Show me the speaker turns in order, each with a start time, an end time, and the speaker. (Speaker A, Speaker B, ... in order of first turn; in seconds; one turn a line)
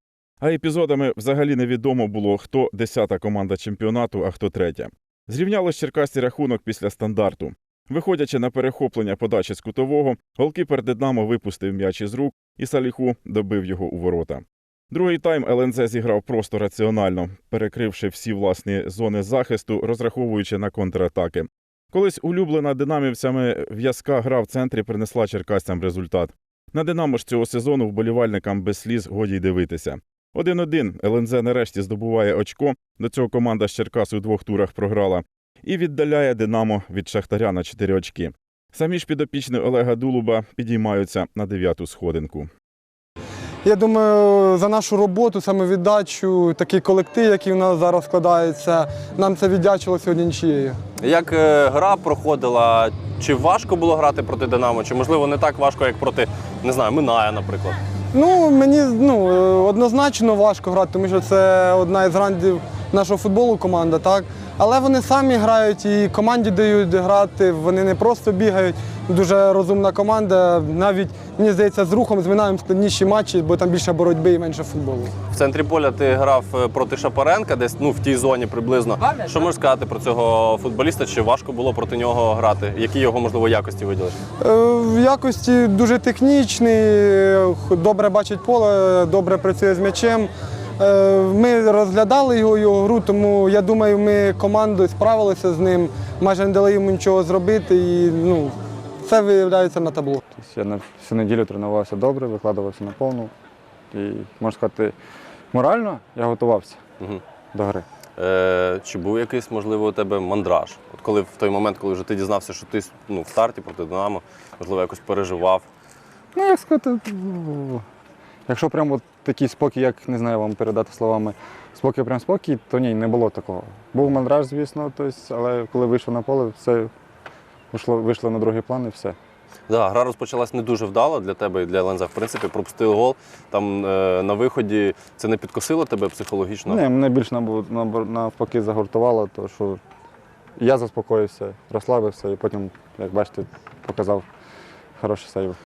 Speaker A: 0.4-42.5
Speaker B: 43.6-50.8
Speaker C: 51.0-57.8
Speaker B: 58.1-75.1
Speaker C: 75.3-84.2
Speaker B: 84.4-100.2
Speaker D: 100.3-103.3
Speaker D: 103.9-105.0
Speaker D: 105.5-106.8
Speaker D: 107.5-107.8
Speaker C: 108.2-115.7
Speaker D: 116.3-117.8
Speaker D: 118.5-126.9
Speaker D: 127.7-129.2
Speaker C: 129.7-136.8
Speaker D: 136.7-139.8
Speaker D: 140.6-144.2
Speaker D: 145.0-145.6